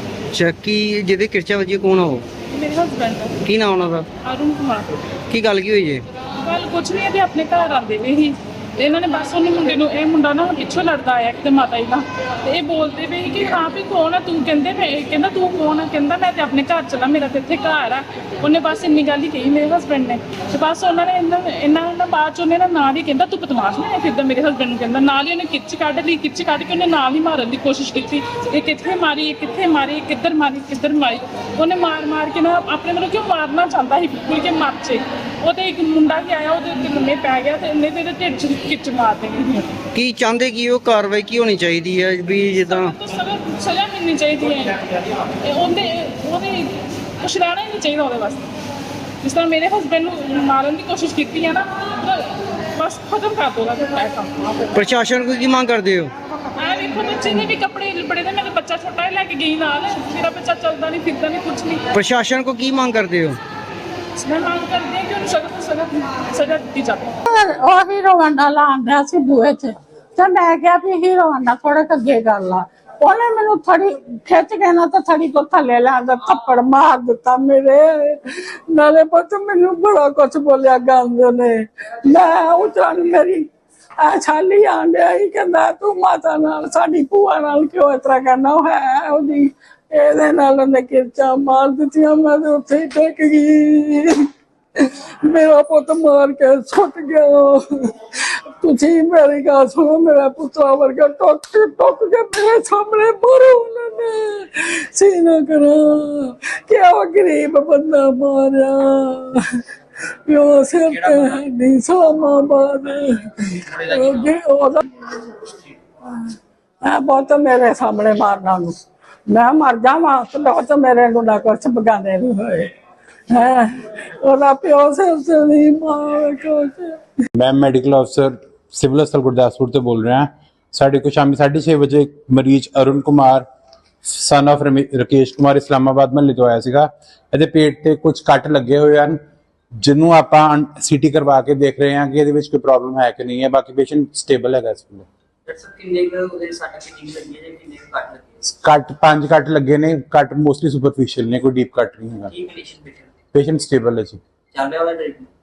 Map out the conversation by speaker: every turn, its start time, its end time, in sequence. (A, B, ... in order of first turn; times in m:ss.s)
0:00.3-0:02.2 A
0:02.5-0:03.4 B
0:03.4-0:04.1 A
0:04.2-0:04.9 B
0:05.3-0:06.0 A
0:06.4-0:39.7 B
0:39.9-0:42.9 A
0:42.7-0:48.5 B
0:49.2-0:54.7 B
0:54.7-0:56.1 A
0:56.6-1:01.8 B
1:01.9-1:03.4 A
1:04.2-1:07.2 B
1:07.3-1:23.5 C
1:24.0-1:34.3 C
1:34.8-1:38.0 C
1:38.6-1:49.6 C
1:50.3-1:55.1 C
1:56.8-1:58.8 C
1:59.3-2:02.7 C
2:03.3-2:07.0 C
2:07.4-2:13.5 D
2:14.1-2:19.2 D
2:19.8-2:25.1 D
2:25.5-2:28.4 E
2:28.4-2:32.3 D
2:32.4-2:33.1 E
2:33.3-2:34.2 D
2:34.5-2:35.3 E